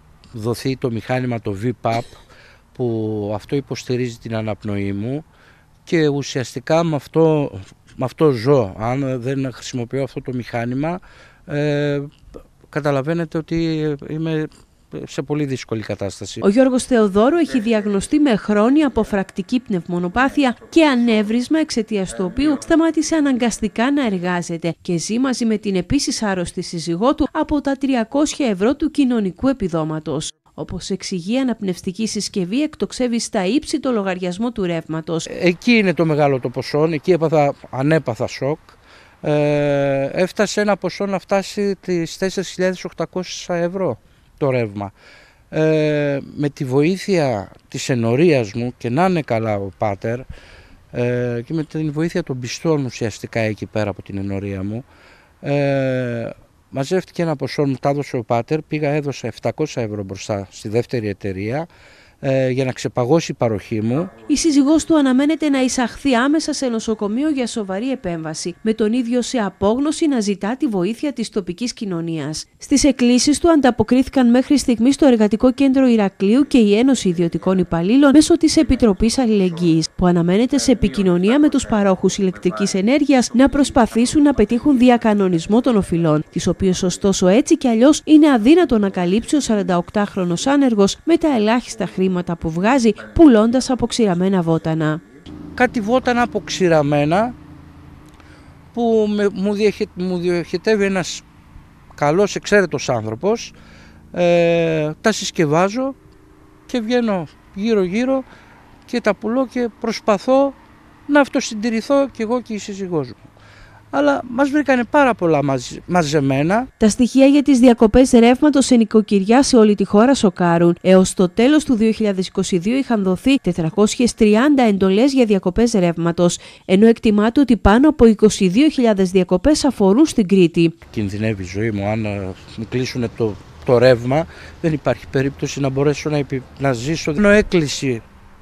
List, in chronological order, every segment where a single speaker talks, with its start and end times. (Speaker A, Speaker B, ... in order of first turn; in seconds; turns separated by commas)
Speaker A: 0.3-2.2, Speaker A: 2.7-5.2, Speaker A: 5.8-12.1, Speaker A: 12.7-16.4, Speaker B: 16.4-35.2, Speaker A: 35.3-44.9, Speaker A: 45.5-50.2, Speaker A: 50.9-54.8, Speaker A: 55.4-61.7, Speaker A: 62.2-64.2, Speaker B: 64.2-95.0, Speaker A: 95.5-97.3, Speaker A: 98.7-101.2, Speaker A: 101.9-103.5, Speaker A: 104.1-105.9, Speaker A: 106.7-108.2, Speaker A: 108.9-110.5, Speaker A: 111.1-113.3, Speaker A: 113.9-116.7, Speaker B: 116.8-130.7, Speaker A: 130.9-138.0